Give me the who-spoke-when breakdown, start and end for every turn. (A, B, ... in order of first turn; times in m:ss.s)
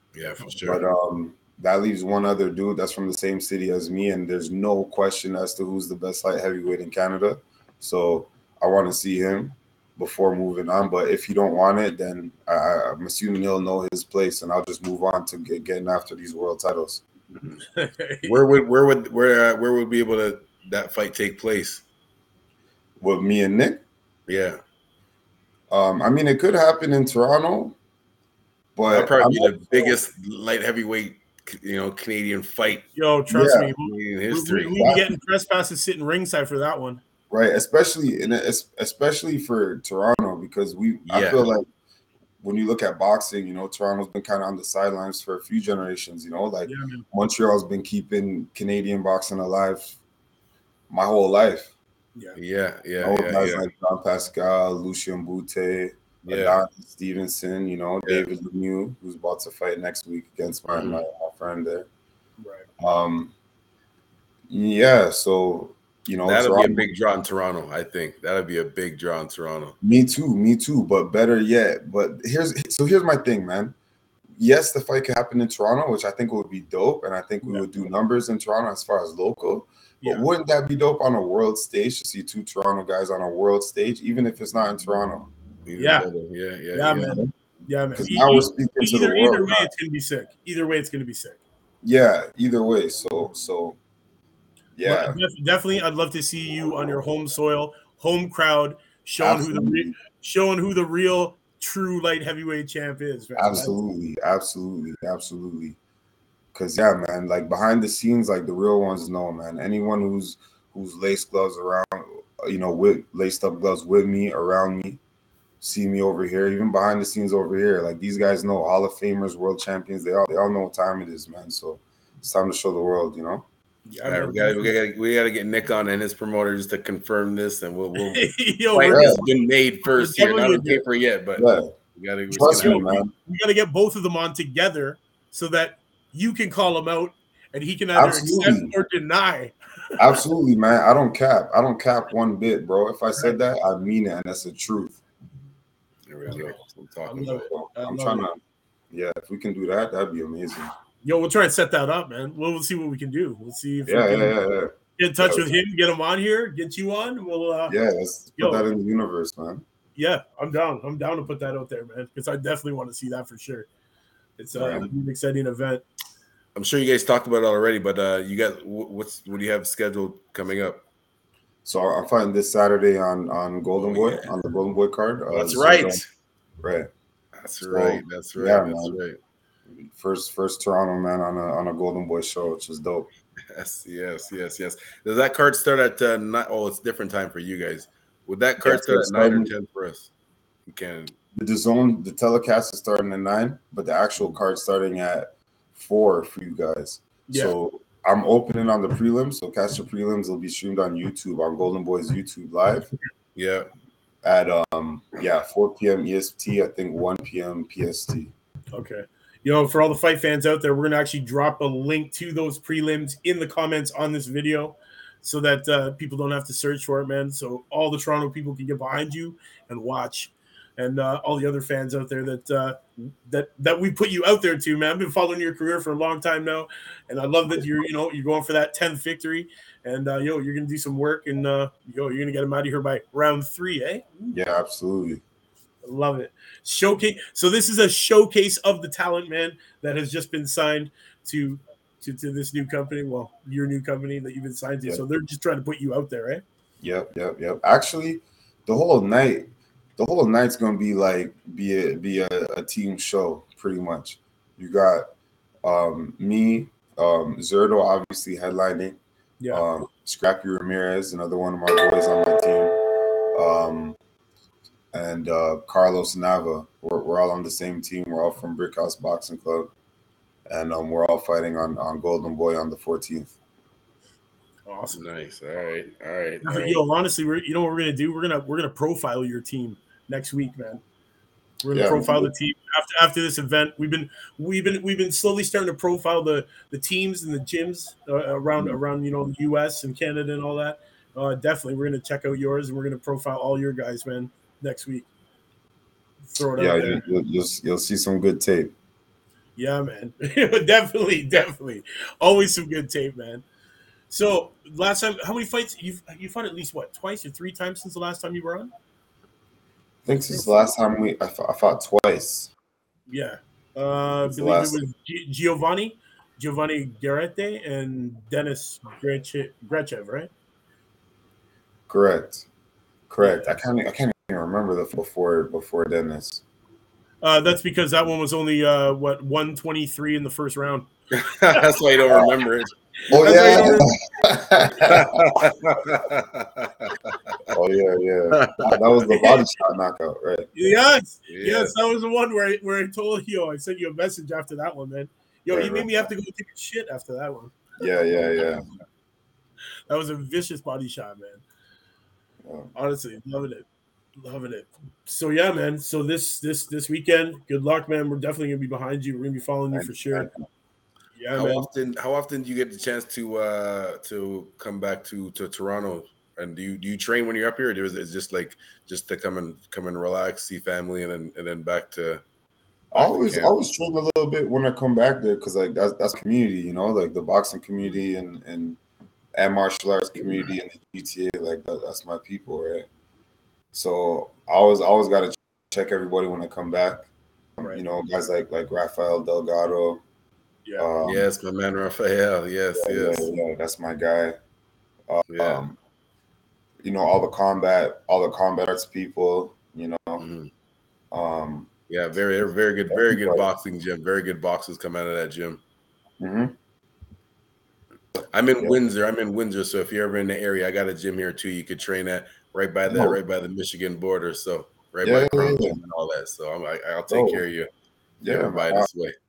0:00.2-0:00.8 A
0:00.6-0:17.0 B
0:17.7-0:18.4 C
0:18.2-0:21.8 A
0:23.0-0:23.8 B
0:24.3-0:24.6 A
0:25.7-0:27.8 B
0:28.8-0:30.0 B
0:28.9-0:32.9 A
0:33.0-0:37.0 C
0:33.3-0:33.7 B
0:33.8-0:34.8 A
0:34.8-0:35.1 B
0:37.3-0:41.7 B
0:41.1-0:41.5 A
0:42.4-0:50.0 B
0:46.7-0:47.1 C
0:50.9-0:51.7 B
0:52.4-0:53.7 A
0:53.0-1:01.9 B
0:56.2-0:56.6 A
1:00.7-1:01.0 A
1:02.4-1:02.7 C
1:02.8-1:03.3 B
1:04.5-1:06.9 B
1:06.2-1:09.8 A
1:09.8-1:13.8 B
1:14.4-1:25.3 B
1:20.0-1:20.3 C
1:25.7-1:27.2 A
1:25.8-1:26.1 C
1:26.7-1:31.4 C
1:28.0-1:29.7 B
1:31.8-1:33.8 B
1:34.8-1:35.2 B
1:34.8-1:43.8 C
1:39.2-1:40.0 B
1:43.4-1:45.8 B
1:46.5-1:55.0 B
1:55.6-2:03.5 B
2:03.9-2:04.7 C
2:04.1-2:12.9 A
2:08.0-2:09.2 C
2:08.9-2:09.2 B
2:09.9-2:10.8 C
2:11.4-2:11.7 B
2:12.3-2:13.1 B
2:12.3-2:19.6 C
2:18.0-2:18.7 B
2:20.0-2:25.0 B
2:26.1-2:27.5 A
2:27.1-2:28.3 C
2:27.5-2:28.4 B
2:28.9-2:30.7 B
2:31.0-2:34.4 C
2:33.9-2:35.5 B
2:35.0-2:37.8 C
2:37.7-2:39.6 B
2:38.4-2:38.7 C
2:40.0-2:43.7 C
2:44.4-2:45.8 C
2:44.6-2:44.9 B
2:46.6-2:50.8 A
2:51.6-2:56.0 B
2:53.8-2:54.3 A
2:55.3-2:56.0 A
2:56.6-2:56.9 B
2:57.4-2:59.2 A
2:57.6-2:59.0 B
2:59.7-3:03.1 B
3:03.5-3:10.1 A
3:08.6-3:09.5 B
3:10.7-3:11.1 A
3:11.3-3:22.9 B
3:17.3-3:17.6 C
3:23.4-3:23.7 A
3:24.2-3:28.3 B
3:28.7-3:54.3 C
3:47.5-3:47.8 B
3:54.3-3:55.2 B
3:55.8-4:06.4 C
4:06.8-4:15.1 B
4:15.6-4:19.0 B
4:19.5-4:24.0 B
4:24.9-4:29.7 B
4:30.5-4:33.4 B
4:34.7-4:35.0 C
4:34.9-4:36.8 A
4:36.4-4:40.8 C
4:41.6-4:55.1 C
4:41.7-4:42.3 B
4:56.3-4:57.0 C
4:56.6-4:58.7 B
4:59.6-5:03.4 C
5:04.1-5:08.7 C
5:10.0-5:12.5 B
5:10.2-5:10.7 C
5:13.1-5:20.3 C
5:14.3-5:14.8 B
5:21.9-5:22.5 B
5:23.1-5:26.4 B
5:23.2-5:23.5 C
5:27.2-5:30.9 C
5:31.1-5:32.7 A
5:32.1-5:32.4 B
5:33.1-5:33.9 C
5:33.1-5:35.2 B
5:34.8-5:37.6 A
5:37.5-5:40.5 B
5:38.3-5:39.1 A
5:40.5-5:47.6 C
5:41.3-5:41.8 A
5:45.5-5:45.9 B
5:47.8-5:48.7 B
5:49.9-5:51.4 C
5:52.4-5:52.7 B
5:52.8-5:53.7 C
5:54.2-6:00.3 C
5:59.7-6:00.5 B
6:01.2-6:01.7 C
6:01.4-6:12.2 A
6:12.9-6:18.8 B
6:13.0-6:13.5 A
6:19.4-6:22.9 B
6:23.7-6:30.0 B
6:30.8-6:31.3 B
6:31.0-6:33.3 A
6:32.8-6:34.4 B
6:35.1-6:35.8 B
6:35.3-6:35.6 A
6:36.8-6:40.2 B
6:40.2-6:40.5 A
6:41.1-6:41.7 B
6:41.9-6:45.6 A
6:42.9-6:43.5 B
6:46.2-6:46.5 B
6:48.3-6:57.7 A
6:52.9-6:53.2 B
6:55.0-6:55.8 B
6:57.1-6:57.4 B
6:58.2-6:58.9 B
6:58.2-6:59.2 A